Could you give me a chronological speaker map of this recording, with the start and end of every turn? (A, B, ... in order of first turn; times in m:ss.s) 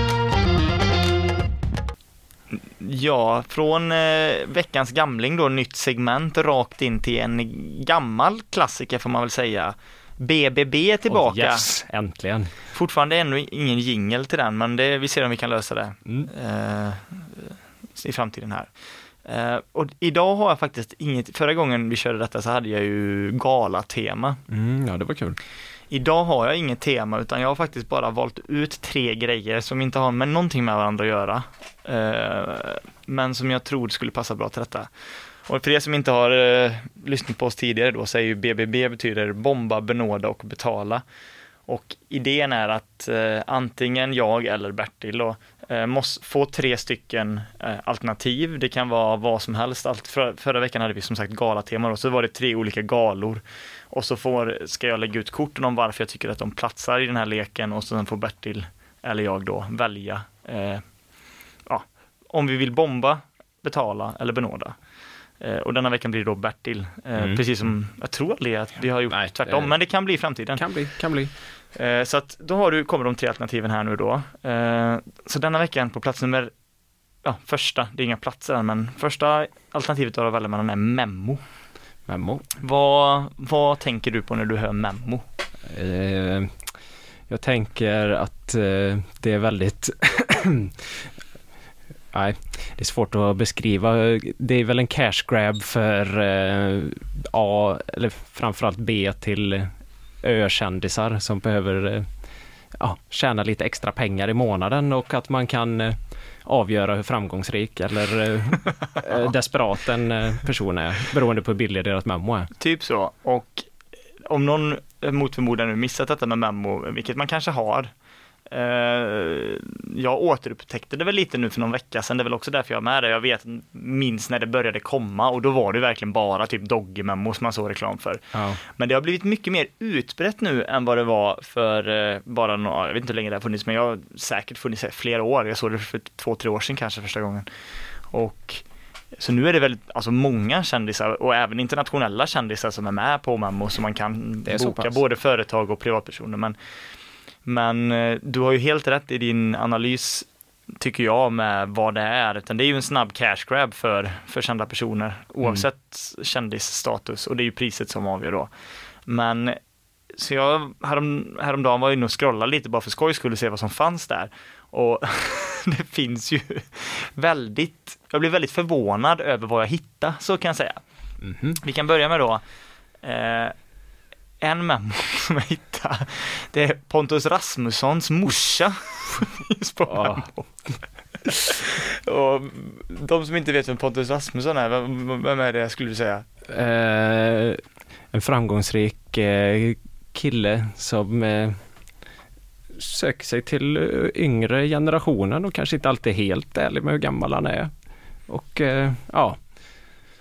0:02.5-0:11.7 A
0:11.1-0:12.5 B
0:12.7-0:18.7 A
0:19.2-0:24.4 A
0:24.5-0:25.4 B
0:25.9-0:34.9 A
0:35.5-0:41.0 A
0:41.7-1:00.8 A
1:01.7-1:04.8 A
1:05.4-1:10.6 A
1:07.2-1:07.7 B
1:09.1-1:11.3 B
1:11.7-1:16.5 A
1:17.2-1:21.4 A
1:22.1-1:22.4 B
1:22.6-1:25.2 A
1:25.7-1:26.7 B
1:27.3-1:31.1 B
1:32.1-1:39.7 B
1:40.2-1:42.1 B
1:42.8-1:52.5 B
1:52.6-1:53.7 A
1:54.3-1:57.9 A
1:58.5-2:17.5 A
2:08.3-2:08.6 B
2:18.1-2:18.6 A
2:19.2-2:26.6 A
2:24.4-2:25.0 B
2:27.4-2:38.5 A
2:39.1-2:39.6 A
2:40.2-2:50.8 A
2:51.2-2:51.6 B
2:51.6-2:52.4 A
2:53.0-2:53.6 A
2:54.4-3:00.4 A
2:59.9-3:00.3 B
3:01.3-3:06.2 A
3:06.5-3:11.6 B
3:12.7-3:17.7 B
3:18.3-3:19.4 B